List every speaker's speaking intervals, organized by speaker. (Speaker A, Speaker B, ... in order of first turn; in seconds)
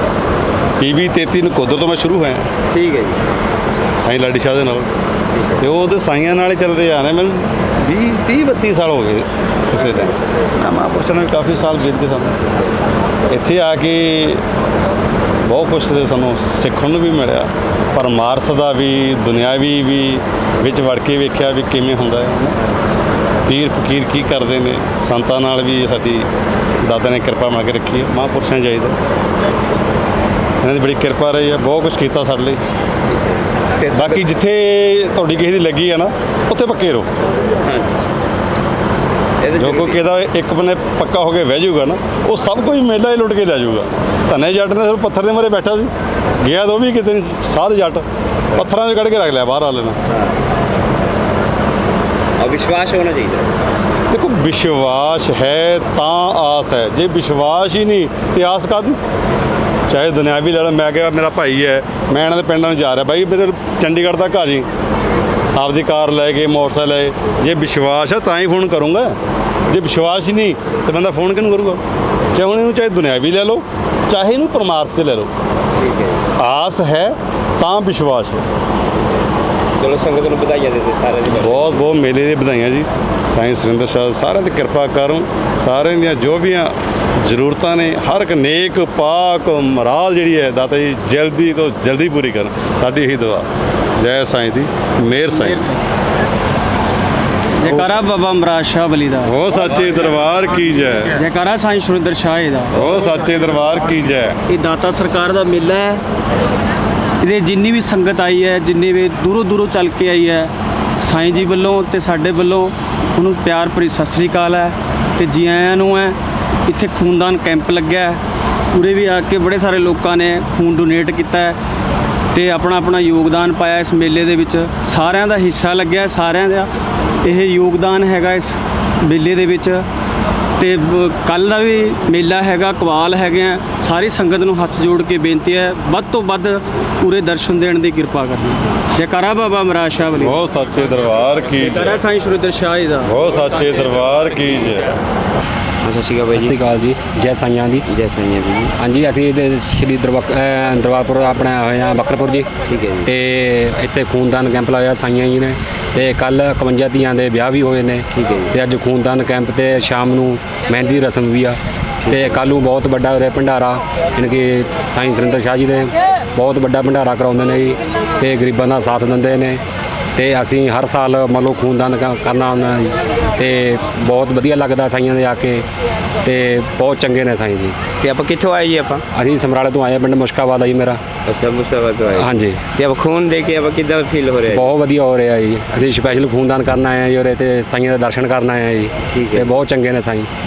Speaker A: 0.8-2.5, 4.0-4.9, 5.6-12.4, 13.3-14.4, 15.4-22.6, 23.5-26.2, 26.8-29.0, 30.6-32.6, 33.9-37.1, 39.6-45.9, 46.4-48.0, 48.6-50.0, 54.1-59.0, 59.9-64.7, 65.6-69.2, 69.7-71.8, 72.3-75.3, 76.4-78.4, 81.4-86.7, 87.3-93.5, 94.0-95.6, 99.3-101.1, 102.7-104.3, 140.2-141.9, 143.1-144.9
Speaker B: 2.7-3.2, 5.3-5.7, 33.8-34.3, 39.4-40.0, 52.4-53.5, 75.8-76.2, 79.8-82.0, 145.8-146.6, 147.9-148.7, 152.7-153.1, 158.1-158.6, 162.1-162.3, 178.0-179.0, 181.2-184.7, 189.1-189.6
Speaker C: 95.3-95.8, 97.6-99.4, 101.2-102.8, 104.5-106.0, 107.2-110.5, 111.0-118.2, 118.7-121.6, 122.3-126.7, 127.2-129.8, 130.6-140.4, 141.5-143.2
Speaker D: 146.3-147.9, 148.8-152.5, 153.0-169.6, 170.2-175.7, 176.2-177.8, 179.1-181.0, 182.2-182.7, 184.5-190.3